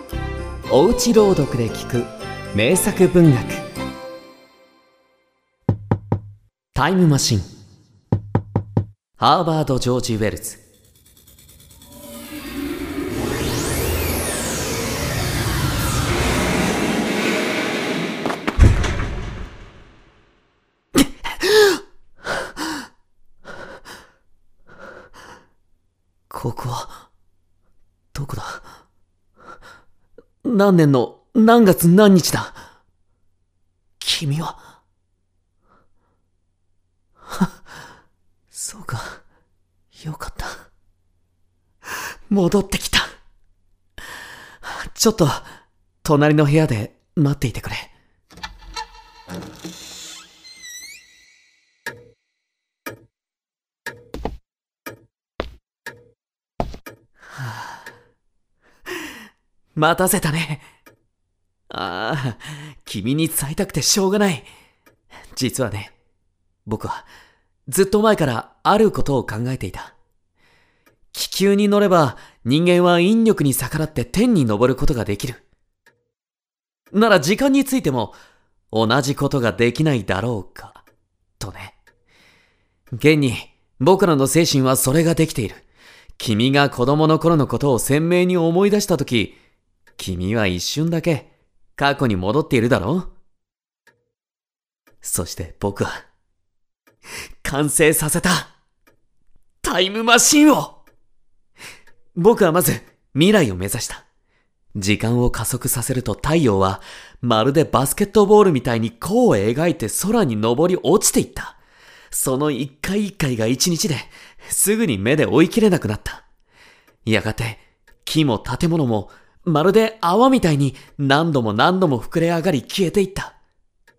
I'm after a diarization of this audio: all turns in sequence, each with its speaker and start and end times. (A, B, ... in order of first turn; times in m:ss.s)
0:00.7-0:03.6 A
0:06.7-0:07.4 A
0:09.2-0:10.6 A
0:21.0-0:21.8 A
0:26.3-0:27.0 A
0:28.1-0:28.6 A
0:30.4-0:32.6 A
0:34.0-0:34.6 A
0:38.5-0:39.2 A
0:39.9-0:40.6 A
0:42.3-0:43.1 A
0:44.6-0:45.5 A
0:46.0-0:47.9 A
0:57.3-0:57.8 A
0:59.8-1:00.6 A
1:01.7-1:04.5 A
1:05.3-1:05.9 A
1:06.6-1:07.0 A
1:07.7-1:10.0 A
1:11.1-1:15.4 A
1:16.9-1:18.2 A
1:18.7-1:20.8 A
1:21.4-1:21.8 A
1:22.9-1:25.6 A
1:26.2-1:29.4 A
1:30.0-1:33.1 A
1:35.0-1:35.9 A
1:37.4-1:38.5 A
1:39.6-1:40.8 A
1:42.2-1:44.0 A
1:44.7-1:51.6 A
1:52.1-1:56.2 A
1:57.0-2:03.4 A